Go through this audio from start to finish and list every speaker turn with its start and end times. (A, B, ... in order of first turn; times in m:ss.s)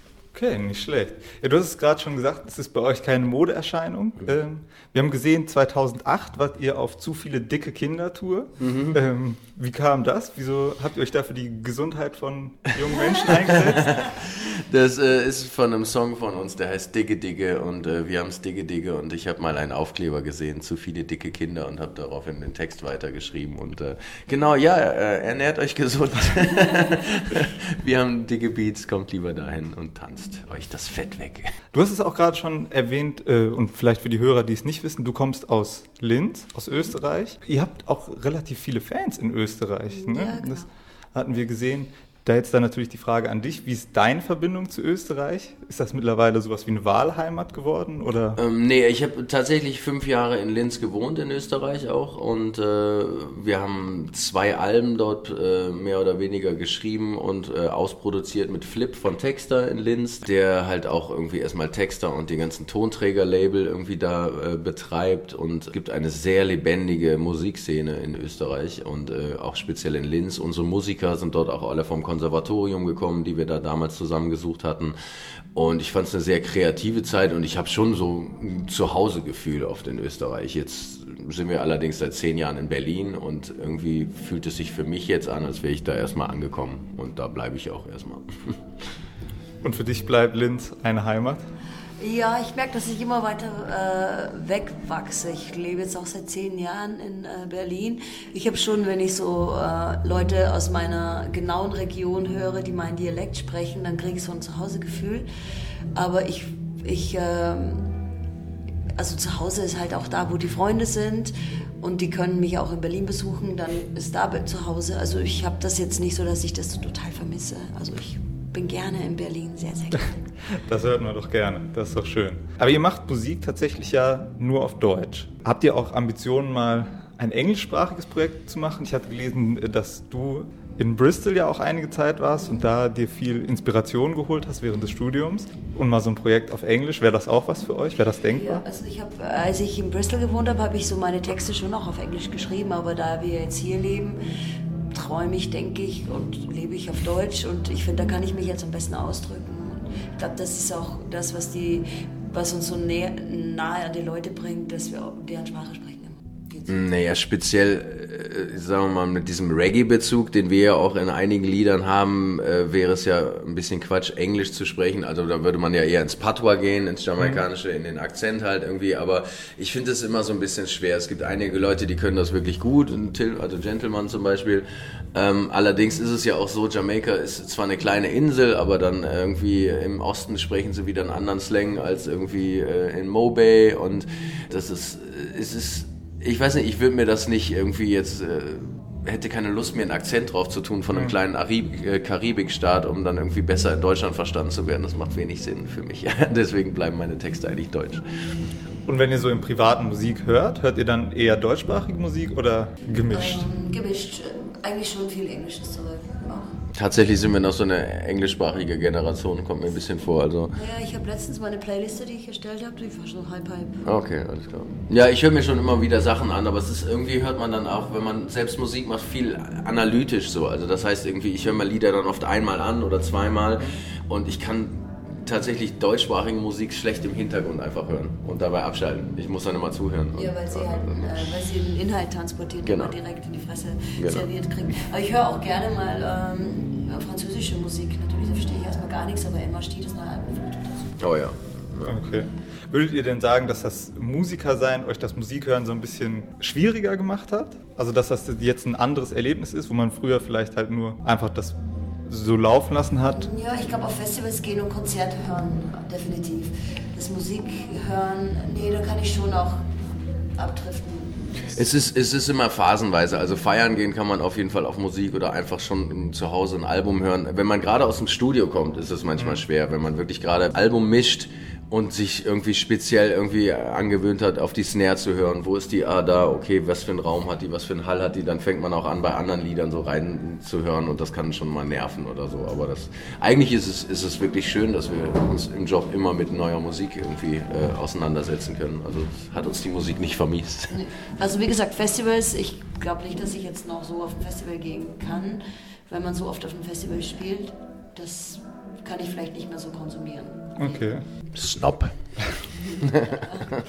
0:00.3-0:13.9 A
0:08.6-0:09.0 B
0:13.2-0:31.5 B
0:31.7-0:48.4 A
0:39.9-0:40.7 C
0:48.4-1:15.0 B
1:15.5-1:28.6 B
1:29.6-1:31.5 A
1:32.0-1:45.3 C
1:45.9-1:48.0 C
1:48.9-2:00.2 C
2:00.6-2:18.6 A
2:18.3-2:24.2 C
2:24.9-2:36.8 C
2:36.7-3:18.1 B
3:18.8-3:23.4 A
3:23.1-3:26.6 C
3:26.7-3:30.6 B
3:30.5-3:33.8 C
3:33.8-3:51.3 B
3:50.1-4:01.0 C
3:52.6-3:52.9 B
3:54.0-3:54.3 B
4:01.0-4:01.9 B
4:01.8-4:13.3 A
4:13.1-4:19.6 C
4:20.3-4:21.5 C
4:21.5-4:50.8 B
4:50.7-5:00.8 C
5:00.6-5:01.0 A
5:01.3-5:01.9 B
5:02.6-5:03.5 C